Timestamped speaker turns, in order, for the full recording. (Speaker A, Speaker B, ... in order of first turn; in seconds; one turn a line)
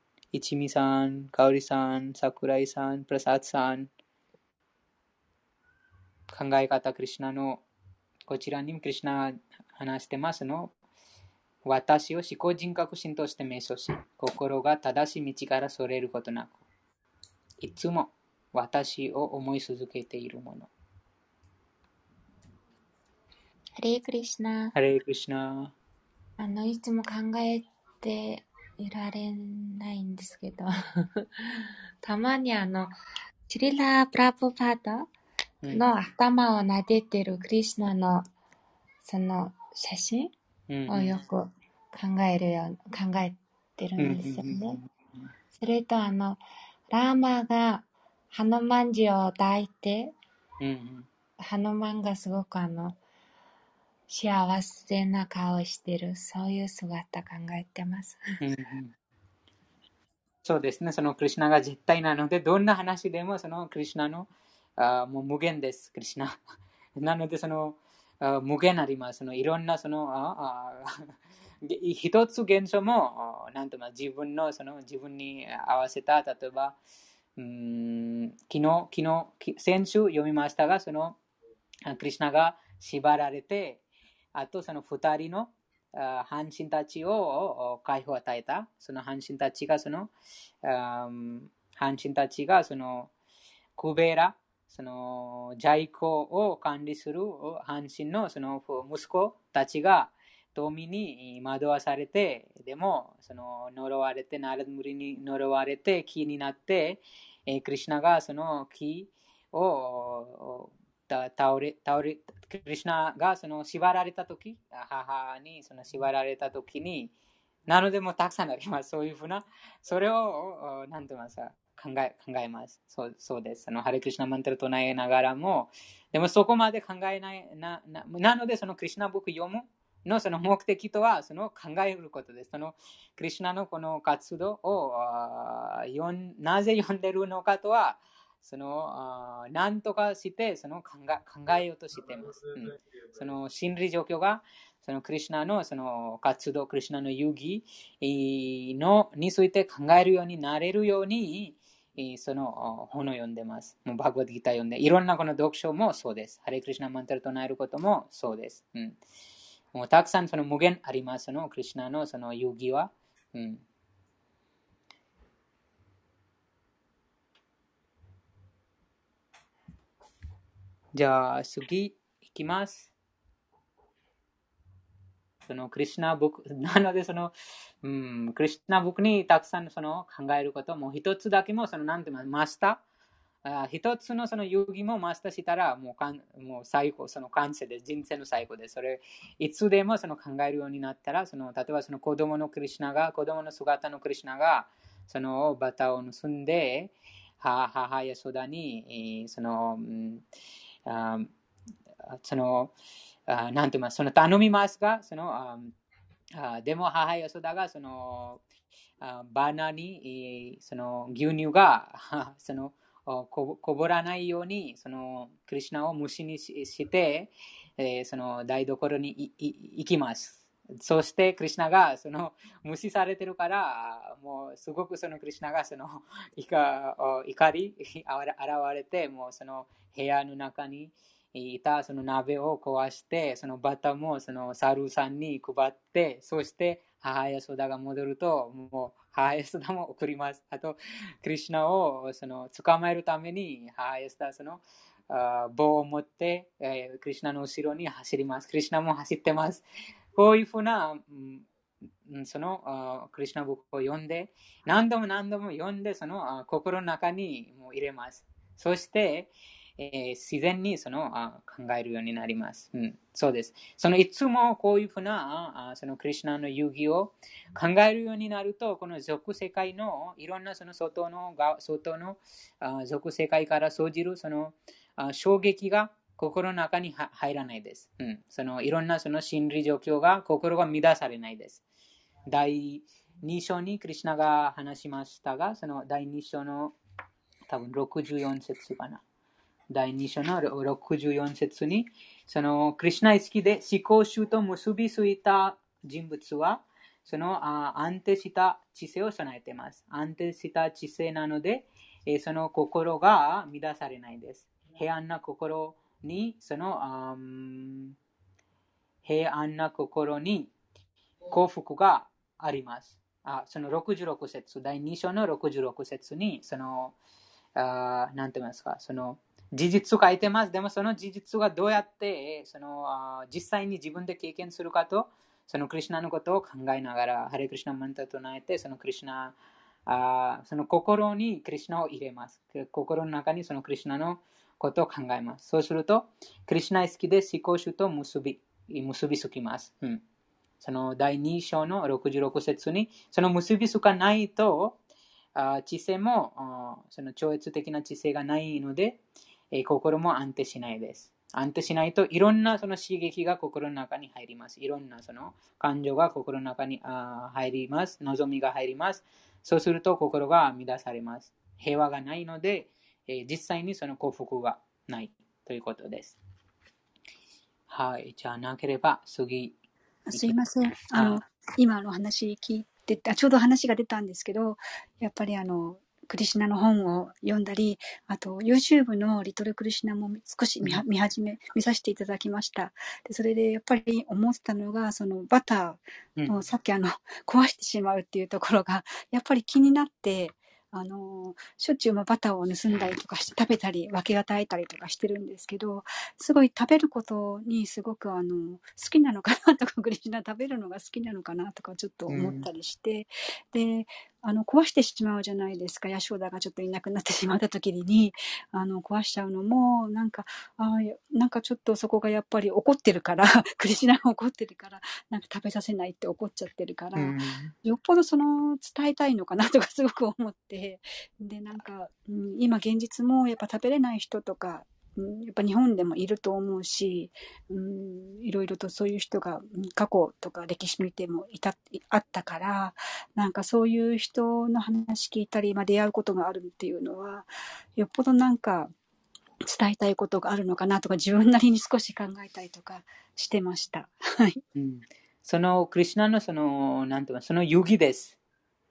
Speaker A: 0.3-3.9
Speaker A: 6.3-7.6
Speaker A: 8.3-10.7
Speaker A: 11.7-16.6
Speaker A: 17.6-20.7
Speaker B: 23.8-24.7
Speaker A: 24.7-25.7
Speaker B: 26.4-33.0
Speaker B: 33.5-35.1
Speaker A: 35.6-35.9
Speaker B: 35.7-38.2
Speaker B: 39.0-40.3
Speaker A: 40.7-41.2
Speaker B: 40.9-44.8
Speaker A: 44.0-44.9
Speaker B: 45.5-50.1
Speaker A: 50.6-51.1
Speaker B: 51.4-53.0
Speaker B: 54.1-58.2
Speaker A: 58.4-58.9
Speaker A: 60.4-66.3
Speaker A: 67.0-71.1
Speaker A: 71.6-76.7
Speaker A: 77.4-81.2
Speaker A: 81.9-83.8
Speaker A: 84.3-90.1
Speaker A: 90.6-93.1
Speaker A: 93.8-117.1
Speaker A: 117.7-159.0
Speaker A: 159.7-163.6
Speaker A: 170.9-172.9
Speaker A: 175.4-182.8
Speaker A: 183.4-200.2
Speaker A: 200.9-201.3
Speaker A: 202.1-202.7
Speaker A: 203.3-205.7
Speaker A: 206.3-208.4
Speaker A: 209.0-249.6
Speaker A: 250.1-251.5
Speaker A: 252.1-281.6
Speaker A: 282.3-286.7
Speaker A: 287.5-289.0
Speaker A: 289.7-307.9
Speaker A: 309.0-310.5
Speaker A: 311.3-316.9
Speaker A: 317.6-329.3
Speaker A: 329.9-340.0
Speaker A: 340.6-344.8
Speaker A: 345.3-349.0
Speaker A: 349.5-366.2
Speaker A: 367.7-369.6
Speaker C: 370.1-438.7
Speaker A: 370.9-371.2
Speaker A: 402.1-402.5
Speaker A: 416.9-417.5
Speaker C: 439.4-444.4
Speaker A: 444.5-448.2